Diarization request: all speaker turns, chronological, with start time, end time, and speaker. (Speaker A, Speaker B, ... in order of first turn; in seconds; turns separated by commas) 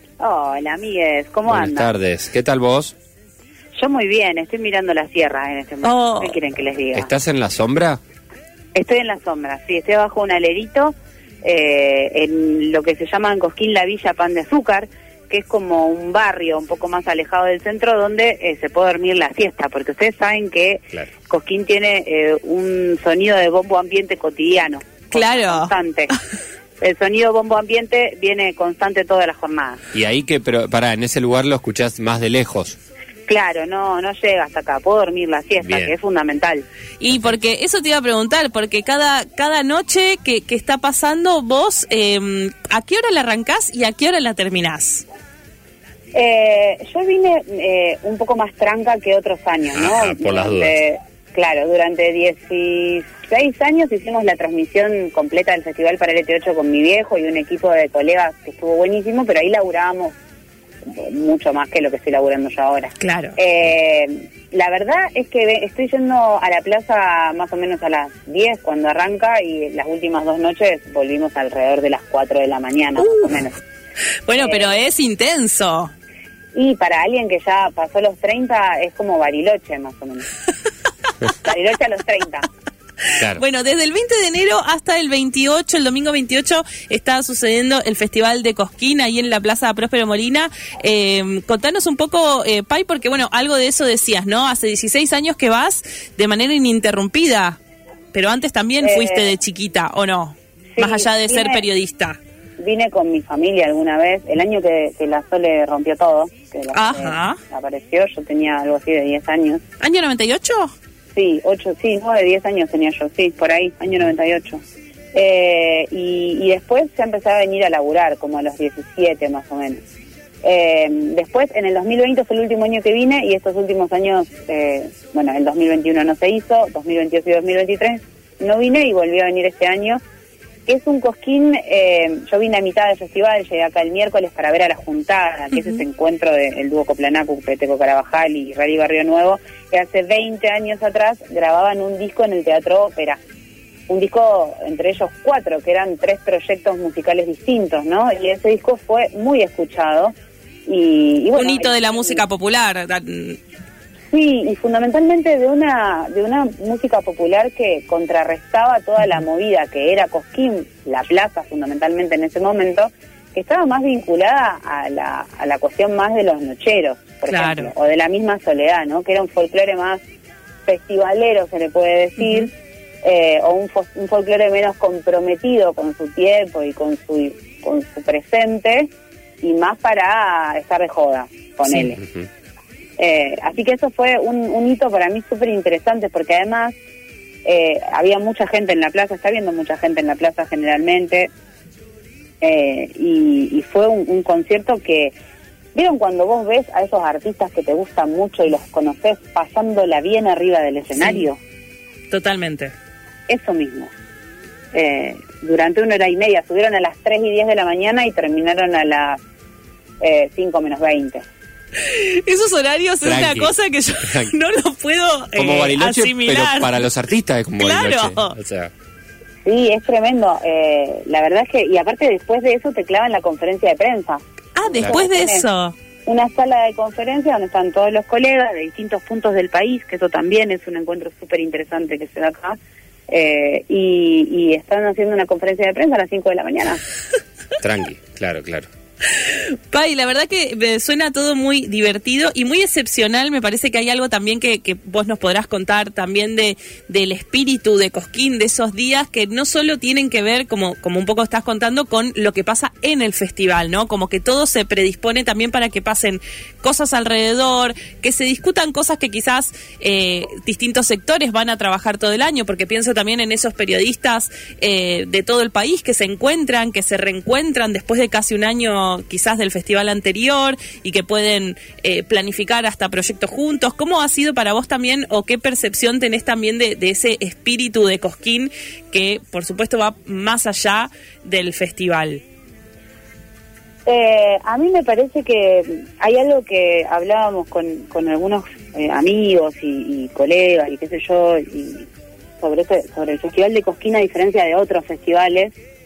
Speaker A: 0.2-1.9, Speaker B: 1.5-2.9, Speaker A: 3.8-7.1, Speaker C: 5.8-6.3, Speaker B: 7.0-8.0, Speaker A: 8.7-26.1, Speaker C: 25.1-25.7, Speaker A: 26.8-29.8, Speaker B: 29.9-32.8, Speaker A: 33.3-36.6, Speaker B: 35.6-35.9, Speaker C: 37.0-45.0, Speaker A: 46.1-60.1, Speaker B: 49.8-50.7, Speaker A: 60.9-73.6, Speaker C: 63.0-63.4, Speaker C: 73.0-73.4, Speaker C: 74.3-75.9, Speaker A: 74.4-74.8, Speaker A: 76.5-80.3, Speaker A: 81.4-82.5, Speaker C: 83.1-97.6, Speaker B: 83.2-83.4, Speaker C: 98.1-102.2, Speaker A: 98.8-99.3, Speaker A: 100.8-101.7, Speaker A: 102.6-109.6, Speaker C: 106.7-107.4, Speaker C: 109.8-110.7, Speaker A: 111.2-114.6, Speaker A: 115.1-119.8, Speaker A: 120.4-130.0, Speaker A: 130.7-143.2, Speaker A: 143.9-150.1, Speaker A: 150.7-152.2, Speaker C: 151.4-153.4, Speaker A: 154.1-170.0, Speaker C: 167.3-167.7, Speaker A: 170.7-172.5, Speaker C: 172.2-172.5, Speaker A: 173.0-178.9, Speaker A: 179.4-182.0, Speaker A: 183.0-186.8, Speaker A: 187.4-191.3, Speaker A: 192.4-195.2, Speaker A: 195.8-201.4, Speaker C: 201.0-201.3, Speaker C: 202.1-202.7, Speaker A: 203.3-203.9, Speaker A: 204.7-209.2, Speaker A: 210.0-211.2, Speaker C: 211.8-216.8, Speaker B: 213.0-213.5, Speaker B: 214.0-214.3, Speaker B: 215.4-218.7, Speaker C: 217.6-218.4, Speaker A: 219.4-225.5, Speaker C: 224.6-225.7, Speaker A: 226.1-232.6, Speaker A: 233.1-236.8, Speaker B: 237.6-238.7, Speaker C: 239.1-282.2, Speaker A: 283.9-291.9, Speaker A: 292.4-295.6